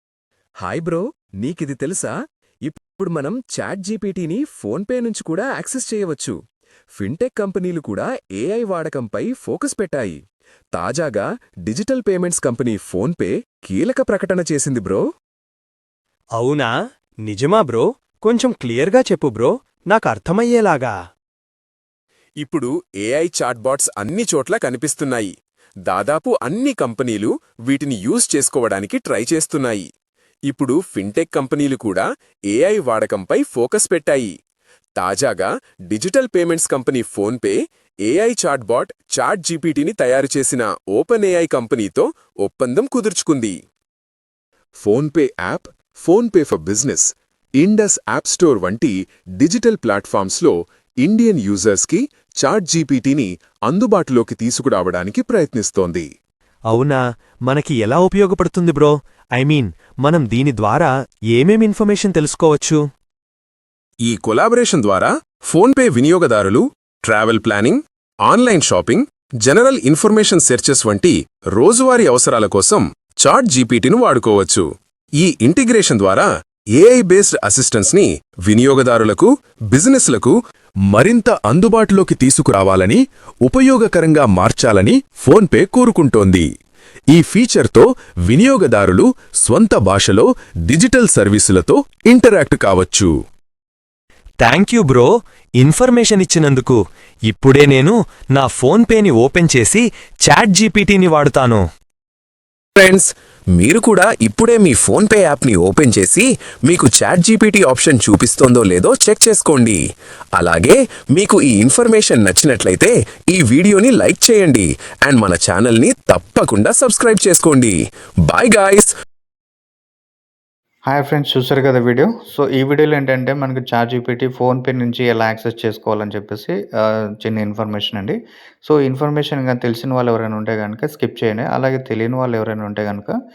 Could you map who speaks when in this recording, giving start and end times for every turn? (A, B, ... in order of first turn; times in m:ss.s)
0:00.6-0:02.1 A
0:02.7-0:06.4 A
0:07.0-0:10.2 A
0:10.8-0:15.0 A
0:16.4-0:16.7 B
0:17.3-0:21.0 B
0:22.4-0:25.3 A
0:25.9-0:29.9 A
0:30.5-0:34.3 A
0:35.0-0:43.6 A
0:44.8-0:47.1 A
0:47.6-0:56.1 A
0:56.7-1:02.8 B
1:04.1-1:14.7 A
1:15.2-1:20.4 A
1:20.9-1:26.5 A
1:27.1-1:33.1 A
1:34.4-1:41.6 B
1:42.8-1:49.8 A
1:50.4-1:57.8 A
1:58.3-1:58.9 A
2:00.9-2:13.1 C